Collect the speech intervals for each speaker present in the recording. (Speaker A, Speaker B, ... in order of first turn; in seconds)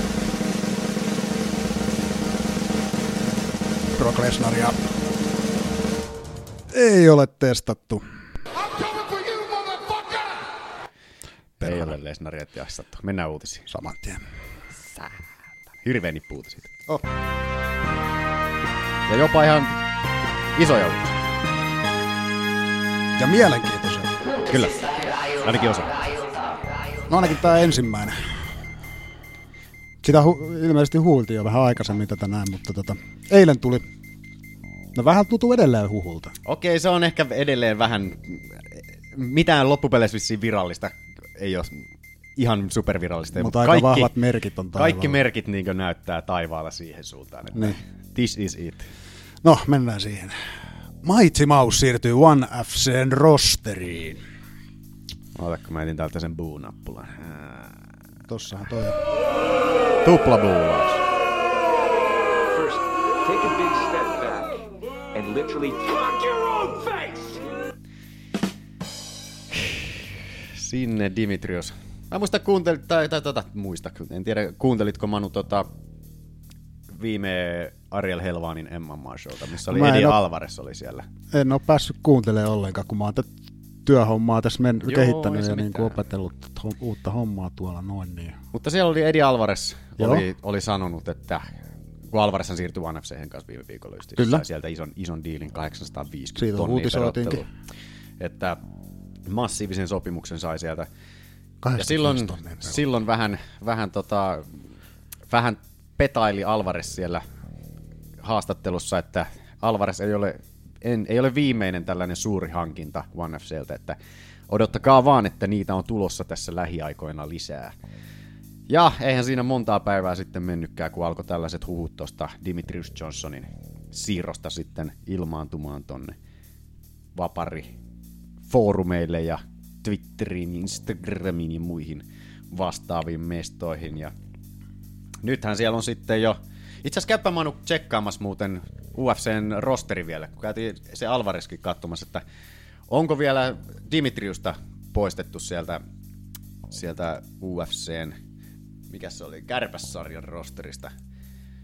Speaker A: 4.0-5.0, 6.7-8.0, 11.6-11.9, 13.7-14.2, 23.2-24.1, 27.1-28.3, 30.0-33.8, 35.0-36.4, 43.4-45.2, 49.4-54.2, 58.3-59.0, 79.7-80.2, 81.3-83.3, 83.9-88.4, 90.0-90.2, 94.2-94.4, 96.4-97.4, 101.6-102.8
Speaker B: 11.6-13.7, 14.9-15.2, 15.8-16.7, 19.1-19.8, 20.6-21.2, 24.4-26.0, 36.5-44.1, 44.8-48.9, 55.4-57.9, 60.0-61.0, 69.5-69.8, 70.5-75.7, 76.9-81.1, 84.8-86.0, 88.5-91.5, 92.1-97.5, 98.2-98.6, 99.3-100.9, 101.8-104.5, 105.3-107.2, 108.2-114.0, 114.5-117.8, 118.7-126.2, 127.2-127.7, 128.5-134.1, 135.2-142.2, 142.9-145.8, 146.7-148.2, 148.9-150.9
Speaker C: 62.5-67.5